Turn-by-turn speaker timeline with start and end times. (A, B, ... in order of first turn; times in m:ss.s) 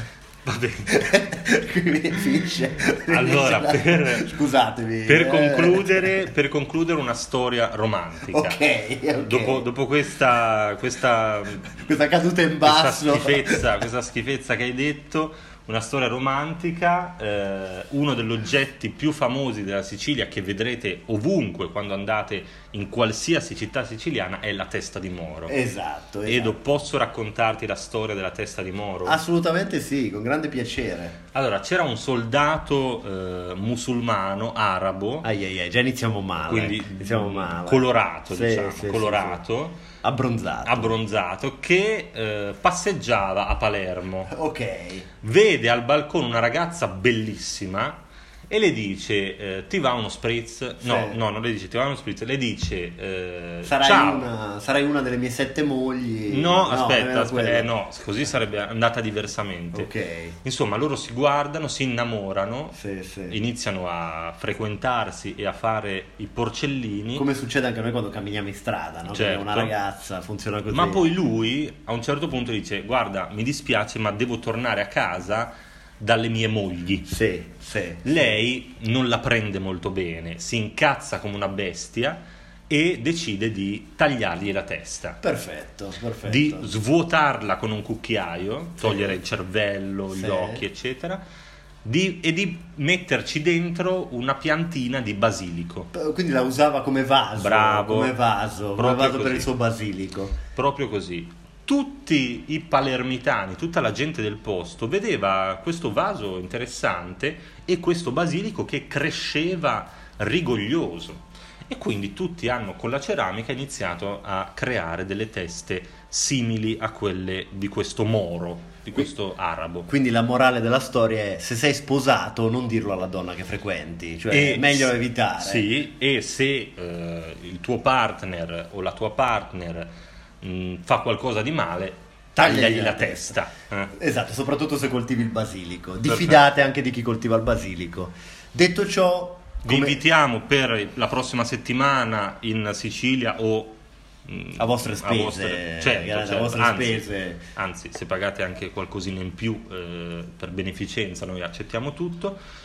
0:00.4-0:01.3 A
0:00.9-0:06.0 B
0:03.1-0:04.3 A
0:05.1-0:08.6 A
0:08.3-0:09.7 B
0:09.2-0:11.8 A
0:11.7-0:13.6 B
0:12.6-0:25.6 A
0:25.5-0:26.7 B
0:26.3-0:29.2 A
0:29.0-0:31.2 B
0:31.3-0:35.3 A
0:35.2-0:39.4 B
0:36.5-0:39.8 A
0:40.0-0:41.0 B
0:40.7-0:44.3 A
0:44.3-0:45.0 B
0:45.2-0:54.3 A
0:50.8-0:51.2 B
0:53.7-0:57.7 B
0:56.3-0:59.9 A
0:59.7-1:00.4 B
1:00.4-1:02.8 A
1:02.7-1:03.4 B
1:03.3-1:07.2 A
1:07.2-1:11.0 B
1:09.1-1:09.7 A
1:10.7-1:17.1 A
1:17.1-1:18.4 B
1:18.0-1:25.2 A
1:25.2-1:26.7 B
1:26.2-1:31.2 A
1:28.8-1:29.2 B
1:30.1-1:30.6 B
1:31.8-1:35.9 A
1:35.9-1:40.4 B
1:37.4-1:38.2 A
1:38.8-1:39.5 A
1:40.5-1:59.9 A
1:59.9-2:05.7 B
2:04.3-2:09.9 A
2:10.4-2:13.9 A
2:12.4-2:13.4 B
2:14.0-2:20.0 B
2:16.0-2:16.4 A
2:19.6-2:32.4 A
2:24.6-2:27.4 B